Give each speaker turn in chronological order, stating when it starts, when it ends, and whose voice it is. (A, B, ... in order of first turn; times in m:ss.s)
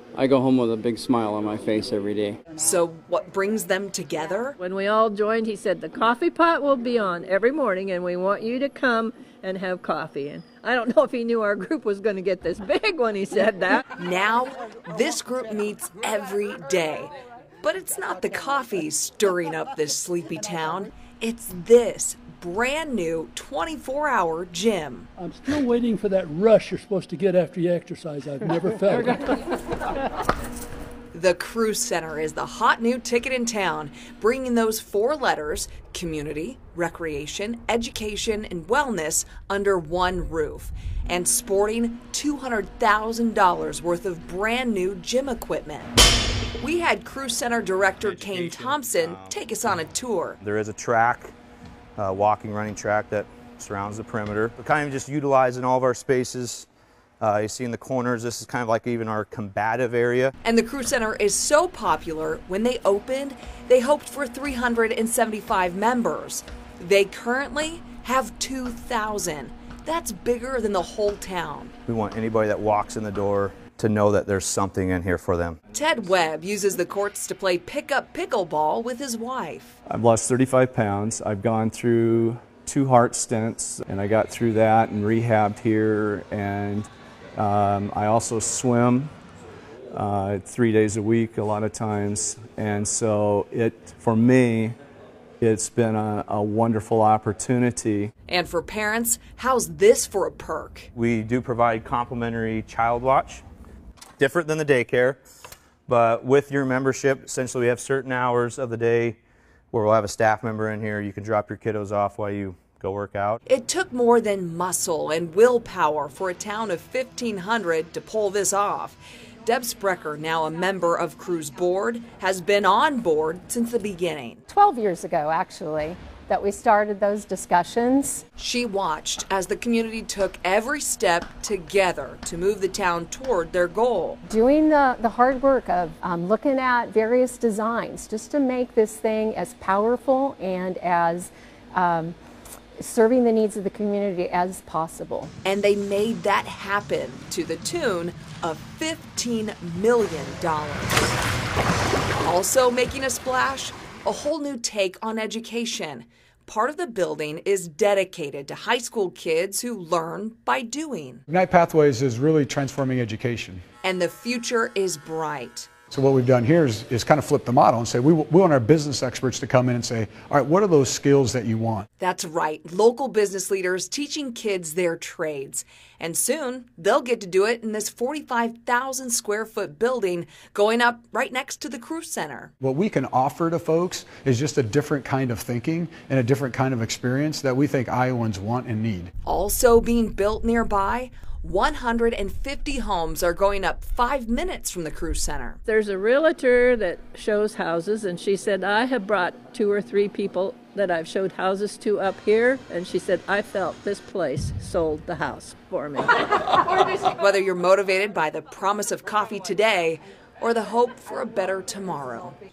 0:00.1-0:02.4 A
0:02.6-0:04.6 B
0:04.6-0:13.8 C
0:14.0-0:17.1 B
0:17.6-0:25.1 B
0:25.2-0:29.3 D
0:31.1-0:45.9 B
0:46.6-0:50.4 B
0:48.0-0:49.5 E
0:50.4-0:51.3 E
0:52.0-0:56.7 E
0:57.2-1:00.3 E
1:00.4-1:11.7 B
1:11.8-1:15.6 E
1:15.7-1:19.8 B
1:19.8-1:29.1 F
1:29.9-1:34.8 F
1:35.4-1:38.1 F
1:38.3-1:40.9 B
1:40.9-1:43.4 E
1:44.2-1:45.2 E
1:45.9-1:49.2 E
1:49.7-1:53.4 E
1:53.5-2:04.4 B
2:04.5-2:08.2 G
2:08.4-2:14.2 B
2:14.3-2:22.1 G
2:22.8-2:25.3 G
2:25.4-2:31.2 B
2:32.2-2:41.2 B
2:41.3-2:43.6 H
2:43.8-2:45.7 B
2:45.9-2:51.8 H
2:52.0-3:02.5 B
3:02.6-3:09.1 H
3:09.2-3:15.6 B
3:15.6-3:26.1 C
3:26.7-3:32.4 B